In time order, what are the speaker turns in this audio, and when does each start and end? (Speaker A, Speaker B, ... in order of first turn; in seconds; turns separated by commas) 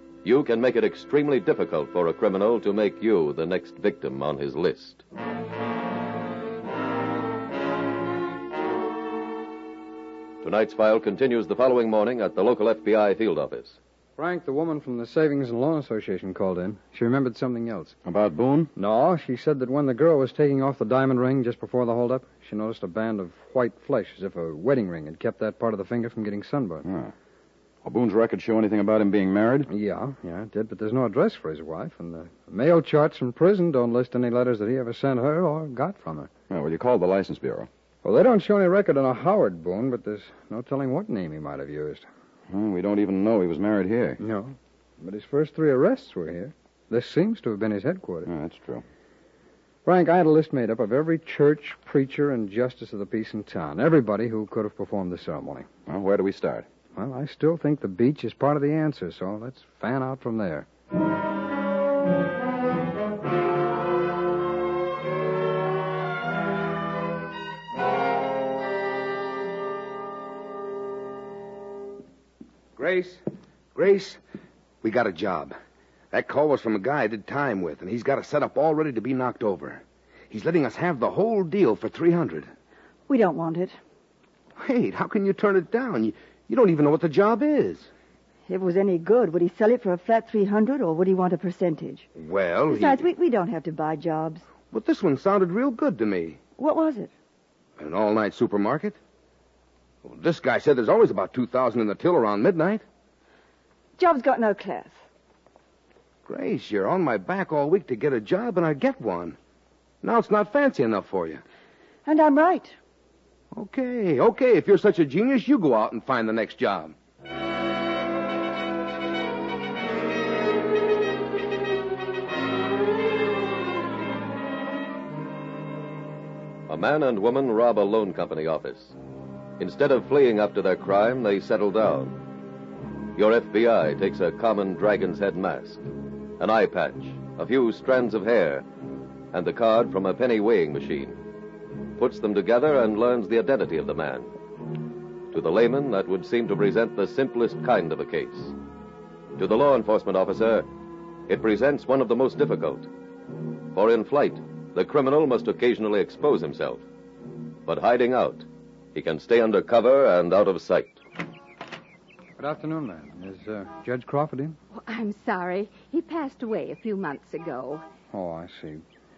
Speaker A: 0.2-5.0, Speaker A: 10.4-13.8, Speaker B: 14.2-18.0, Speaker C: 18.0-18.7, Speaker B: 18.8-26.9, Speaker C: 26.8-27.1, Speaker C: 27.8-29.7, Speaker B: 29.7-36.3, Speaker C: 36.5-37.7, Speaker B: 38.0-42.1, Speaker C: 42.5-44.2, Speaker B: 44.2-48.3, Speaker C: 48.3-48.8, Speaker B: 49.8-55.7, Speaker C: 55.9-56.6, Speaker B: 56.9-60.7, Speaker D: 72.8-73.2, Speaker D: 73.7-74.2, Speaker D: 74.8-75.5, Speaker D: 76.1-82.5, Speaker E: 83.1-83.8, Speaker D: 84.6-87.9, Speaker E: 88.5-92.1, Speaker D: 92.2-93.0, Speaker E: 92.7-94.4, Speaker D: 94.7-96.4, Speaker E: 96.6-97.1, Speaker D: 97.8-99.0, Speaker D: 100.0-102.8, Speaker E: 104.0-105.0, Speaker D: 106.2-109.4, Speaker D: 110.0-111.4, Speaker E: 112.0-112.8, Speaker D: 113.5-116.9, Speaker A: 126.7-129.0, Speaker A: 129.6-132.2, Speaker A: 133.2-135.8, Speaker A: 136.4-138.6, Speaker A: 139.3-141.2, Speaker A: 142.0-144.3, Speaker A: 145.3-148.5, Speaker A: 149.4-150.7, Speaker A: 151.3-152.9, Speaker A: 153.7-156.8, Speaker A: 157.7-161.0, Speaker B: 162.4-164.6, Speaker F: 164.7-167.8, Speaker B: 168.1-168.8